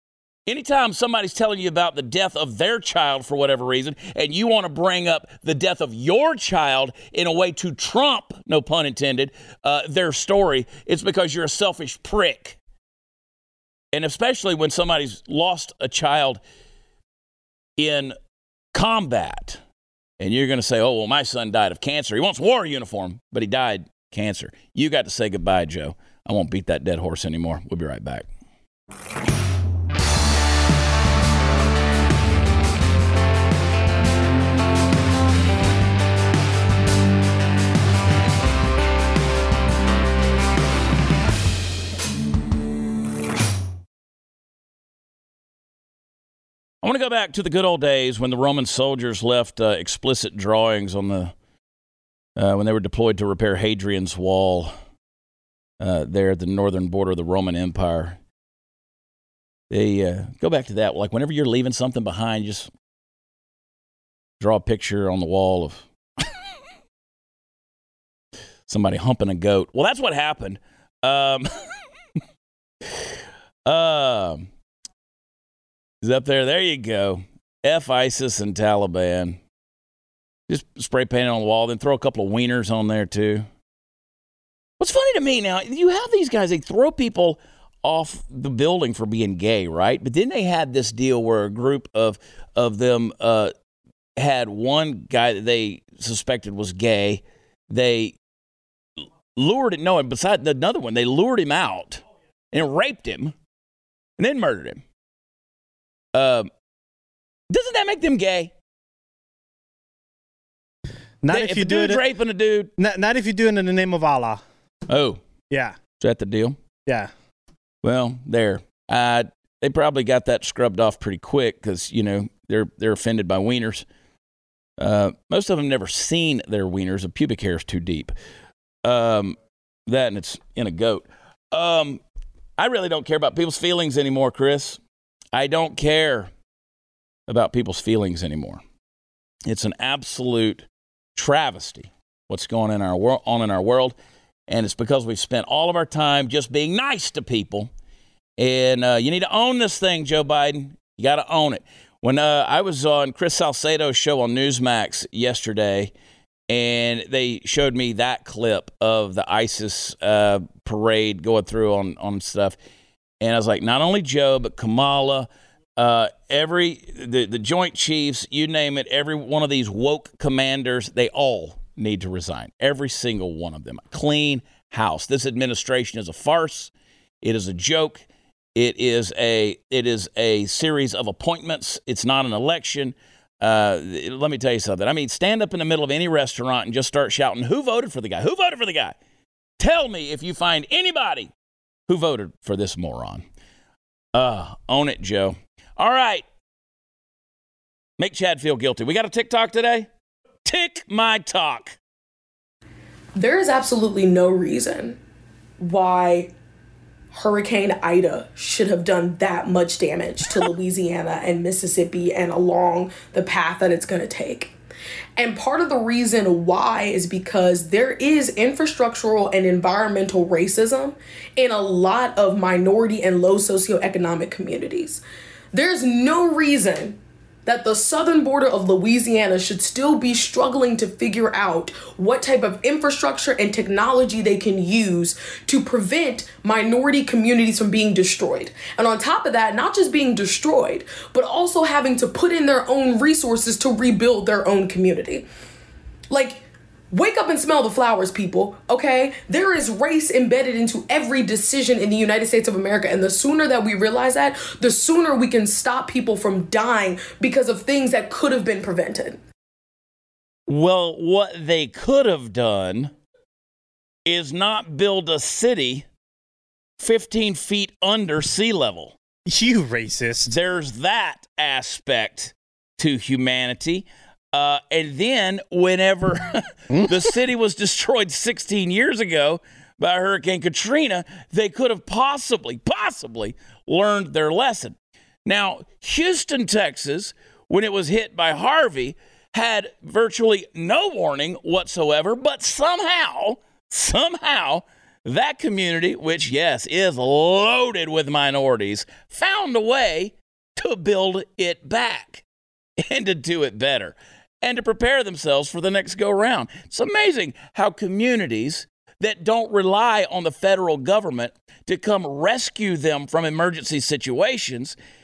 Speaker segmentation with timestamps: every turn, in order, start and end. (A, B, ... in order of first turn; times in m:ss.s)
0:00.5-0:12.6 A
0:13.9-0:16.4 A
0:17.8-0:18.2 A
0:18.7-0:19.6 A
0:20.2-0:28.3 A
0:46.8-0:51.3 A
0:52.4-0:54.7 A
0:55.8-0:58.2 A
0:59.7-1:02.7 A
1:04.4-1:06.3 A
1:08.7-1:11.5 A
1:13.6-1:14.5 A
1:16.0-1:19.4 A
1:20.5-1:23.5 A
1:24.8-1:33.5 A
1:34.2-1:38.2 A
1:39.3-1:43.3 A
1:44.2-1:44.8 A
1:46.1-1:46.5 A
1:47.5-1:48.5 A
1:51.2-1:52.0 B
1:51.3-1:52.7 A
1:52.8-1:54.4 B
1:54.9-1:55.2 A
1:55.5-1:55.8 B
1:56.0-1:56.6 A
1:56.8-1:57.1 B
1:57.8-2:03.8 A
2:04.8-2:08.1 A
2:08.8-2:09.4 A
2:09.9-2:12.0 A
2:12.6-2:14.8 A
2:15.3-2:16.3 A
2:17.3-2:18.6 A
2:19.5-2:23.9 A
2:24.5-2:27.7 A
2:28.4-2:35.9 A
2:36.5-2:42.6 A
2:43.2-3:09.0 A
3:09.6-3:11.3 A
3:11.9-3:13.2 A
3:14.1-3:16.2 A
3:18.0-3:19.9 A
3:20.4-3:21.8 A
3:23.2-3:25.0 C
3:25.6-3:26.3 C
3:27.1-3:34.5 C
3:35.2-4:05.3 C
4:06.1-4:19.2 C
4:20.5-4:22.9 A
4:24.0-4:25.8 A
4:26.8-4:29.0 A
4:29.2-4:30.3 B
4:30.2-5:02.2 A
4:36.7-4:37.1 B
5:02.8-5:14.8 A